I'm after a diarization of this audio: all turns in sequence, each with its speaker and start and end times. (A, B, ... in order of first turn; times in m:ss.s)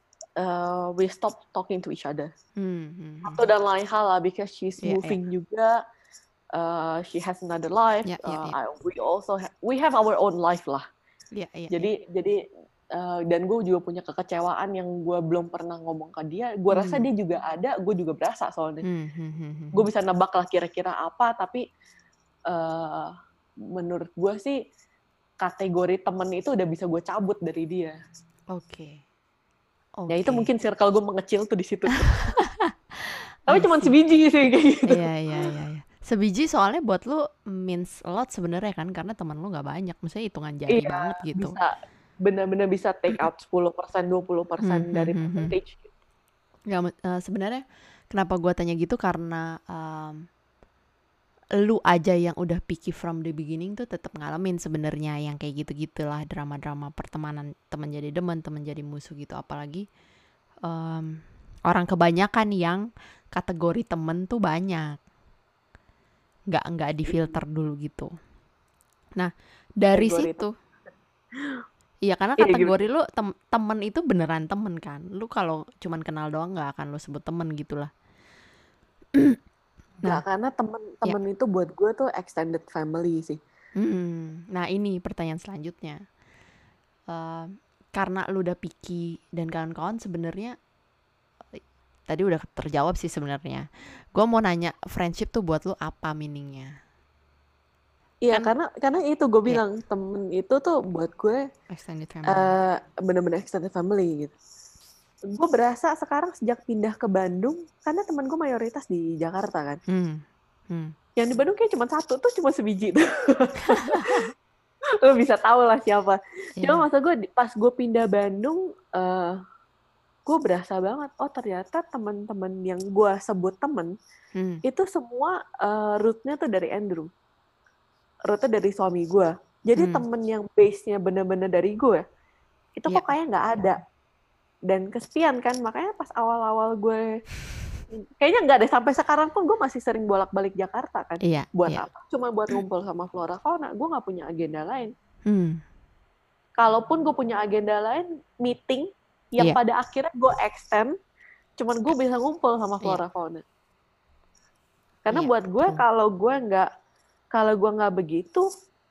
0:00.4-0:02.3 A
0:02.6-0:03.4 B
0:03.2-0:05.8 A
0:04.8-0:05.2 B
0:06.5-0:10.8 A
0:08.1-0:08.6 B
0:11.4-0:11.9 B
0:11.7-0:12.4 A
0:12.9-0:18.8 A
0:16.7-0:17.1 B
0:18.8-0:19.9 B
0:19.7-0:21.6 A
0:22.5-0:23.1 A
0:23.8-0:24.6 A
0:25.4-0:28.0 A
0:28.5-0:29.0 B
0:30.0-0:30.5 B
0:30.1-0:32.2 A
0:32.4-0:32.7 B
0:33.5-0:35.0 A
0:33.5-0:33.9 B
0:34.9-0:41.6 B
0:40.7-0:41.7 A
0:42.2-0:45.9 A
0:44.6-0:45.5 B
0:46.7-0:50.2 B
0:51.6-0:59.8 B
1:00.6-1:05.0 B
1:06.5-1:08.1 B
1:09.8-1:10.5 B
1:10.0-1:10.4 A
1:12.0-1:17.9 B
1:12.4-1:12.7 A
1:19.1-1:19.4 B
1:20.0-1:23.4 A
1:23.8-1:26.0 B
1:27.1-1:30.5 B
1:32.1-1:36.7 B
1:38.2-1:41.4 A
1:41.7-1:42.5 B
1:42.3-1:44.3 A
1:45.3-1:49.8 A
1:49.9-1:50.9 B
1:51.2-1:54.2 A
1:53.8-1:54.3 B
1:55.0-1:59.4 A
1:56.6-1:56.9 B
2:00.3-2:03.9 A
2:04.4-2:04.6 B
2:04.6-2:07.1 A
2:08.3-2:12.0 A
2:09.8-2:10.0 B
2:12.8-2:13.8 A
2:14.7-2:17.0 A
2:17.9-2:24.9 A
2:21.2-2:21.9 B
2:25.3-2:25.6 B
2:26.6-2:31.0 A
2:31.6-2:33.4 A
2:35.0-2:36.7 A
2:35.1-2:35.8 B
2:37.3-2:38.5 A